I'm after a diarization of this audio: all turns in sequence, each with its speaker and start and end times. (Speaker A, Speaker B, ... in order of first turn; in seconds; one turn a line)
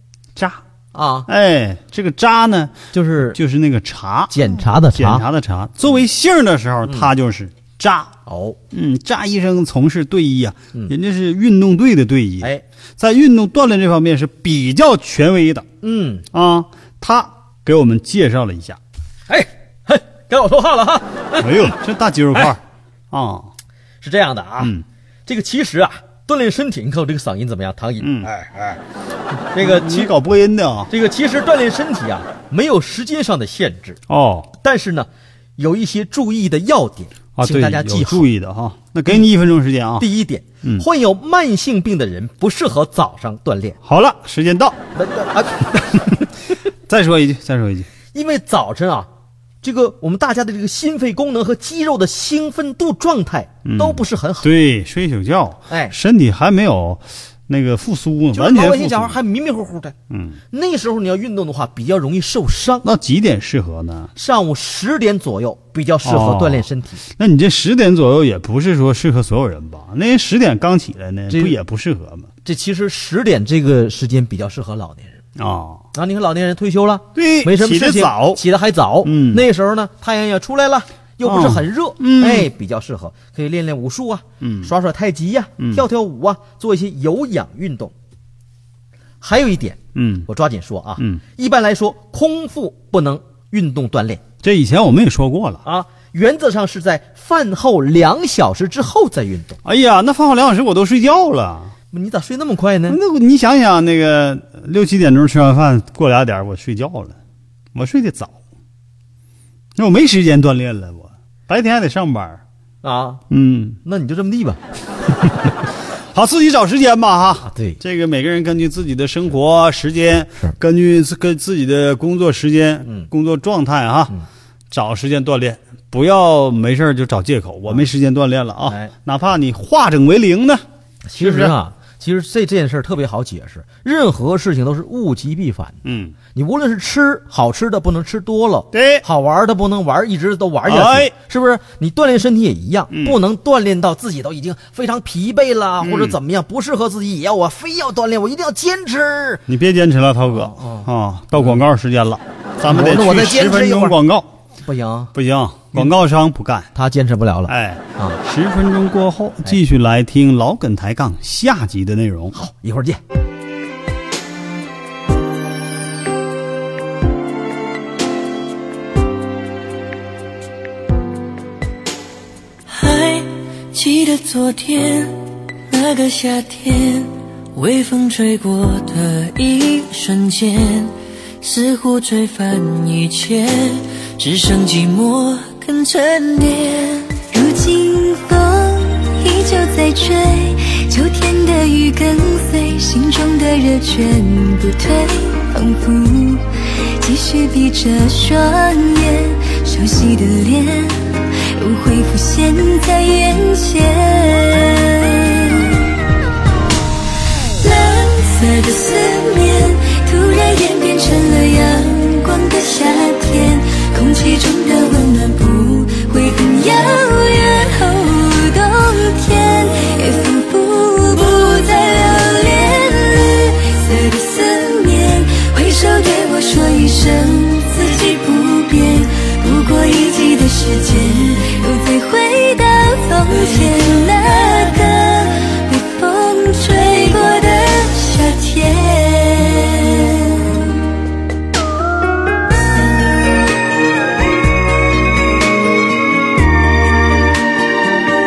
Speaker A: 0.3-0.6
Speaker B: 0.9-1.3
Speaker A: 1.3-8.1
Speaker B: 2.9-3.4
Speaker B: 4.3-5.2
Speaker B: 8.2-8.6
Speaker A: 8.7-15.7
Speaker B: 15.8-16.2
Speaker A: 16.3-18.8
Speaker B: 19.3-21.7
Speaker A: 21.4-23.5
Speaker B: 24.0-24.7
Speaker A: 24.6-24.8
Speaker B: 25.3-28.3
Speaker A: 28.0-28.8
Speaker B: 29.5-30.1
Speaker A: 29.6-30.9
Speaker B: 30.9-34.0
Speaker A: 34.1-34.5
Speaker B: 34.6-38.3
Speaker A: 37.4-40.0
Speaker B: 40.0-43.8
Speaker A: 43.8-44.8
Speaker B: 44.9-46.3
Speaker A: 46.9-47.9
Speaker B: 48.1-49.1
Speaker B: 49.6-54.5
Speaker A: 53.6-59.2
Speaker B: 55.7-55.9
Speaker B: 58.3-59.9
Speaker A: 60.1-60.4
Speaker B: 60.5-62.9
Speaker A: 62.8-64.1
Speaker B: 64.2-67.0
Speaker A: 66.0-72.3
Speaker B: 71.3-71.5
Speaker B: 72.4-75.2
Speaker A: 75.3-75.8
Speaker B: 75.9-87.9
Speaker A: 77.1-78.4
Speaker A: 79.0-79.4
Speaker A: 81.2-82.5
Speaker A: 84.4-84.7
Speaker A: 85.6-85.8
Speaker B: 89.2-94.2
Speaker A: 89.9-90.2
Speaker A: 94.4-95.6
Speaker B: 95.6-99.6
Speaker A: 99.6-101.7
Speaker B: 101.9-103.0
Speaker A: 102.9-107.1
Speaker A: 107.7-108.3
Speaker A: 109.8-112.4
Speaker B: 112.8-113.2
Speaker A: 113.3-113.8
Speaker B: 113.8-114.6
Speaker A: 116.1-124.1
Speaker B: 117.4-117.8
Speaker A: 124.7-130.6
Speaker B: 131.1-135.8
Speaker A: 131.2-131.5
Speaker A: 135.8-136.1
Speaker B: 136.3-149.4
Speaker A: 138.7-139.0
Speaker A: 140.7-141.1
Speaker A: 142.9-143.2
Speaker A: 145.8-146.2
Speaker A: 149.5-154.3
Speaker B: 150.3-151.6
Speaker B: 152.6-154.0
Speaker B: 154.6-155.1
Speaker A: 155.1-156.7
Speaker B: 156.7-158.2
Speaker A: 157.5-162.3
Speaker B: 162.3-163.0
Speaker C: 172.7-187.2
Speaker D: 187.3-196.4
Speaker D: 197.0-205.9
Speaker D: 207.6-240.8
Speaker C: 233.3-234.9